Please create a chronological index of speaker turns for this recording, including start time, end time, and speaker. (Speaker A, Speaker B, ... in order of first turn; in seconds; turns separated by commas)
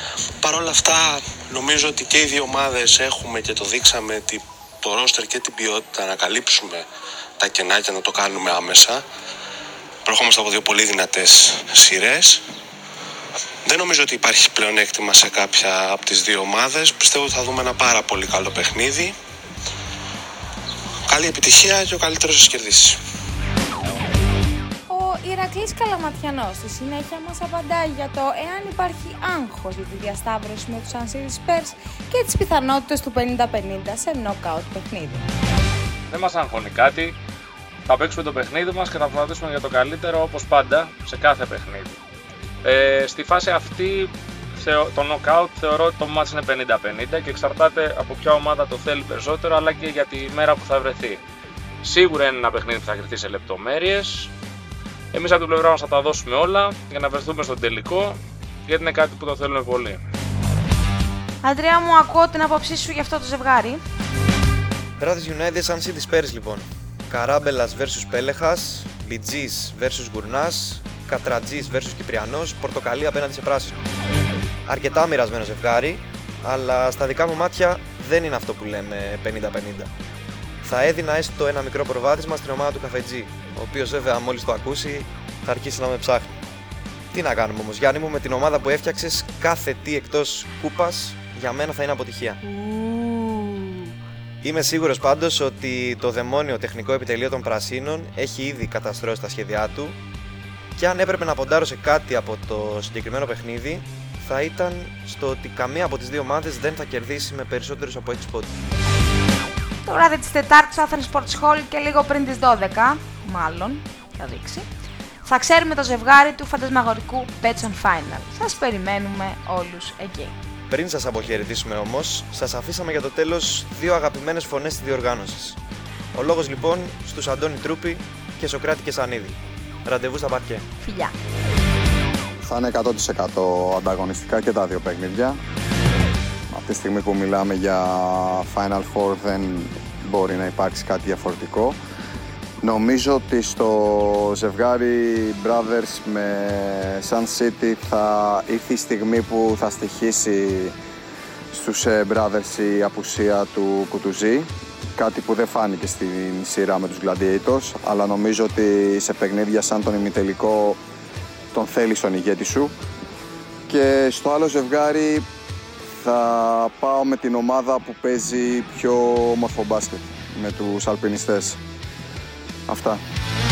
Speaker A: 0.4-6.8, Speaker A: 7.4-9.0, Speaker A: 10.1-12.4, Speaker A: 13.6-19.1, Speaker A: 21.1-22.9, Speaker B: 24.9-35.2, Speaker C: 36.1-37.1, Speaker C: 37.9-41.8, Speaker C: 42.6-43.9, Speaker C: 44.6-51.1, Speaker C: 51.8-54.0, Speaker C: 55.1-58.1, Speaker C: 58.7-59.9, Speaker B: 61.4-63.8, Speaker D: 65.0-73.8, Speaker D: 74.7-79.9, Speaker D: 80.6-86.3, Speaker D: 87.1-92.4, Speaker B: 92.5-93.7, Speaker D: 94.4-100.0, Speaker D: 100.8-108.5, Speaker B: 109.8-114.7, Speaker B: 115.2-120.3, Speaker D: 120.7-125.6, Speaker D: 126.1-130.6, Speaker B: 130.8-131.1, Speaker E: 132.4-135.4, Speaker E: 136.5-141.8, Speaker E: 142.6-150.8, Speaker E: 151.5-160.8, Speaker E: 161.5-162.7, Speaker E: 163.7-165.2, Speaker E: 166.0-171.6, Speaker E: 172.7-173.0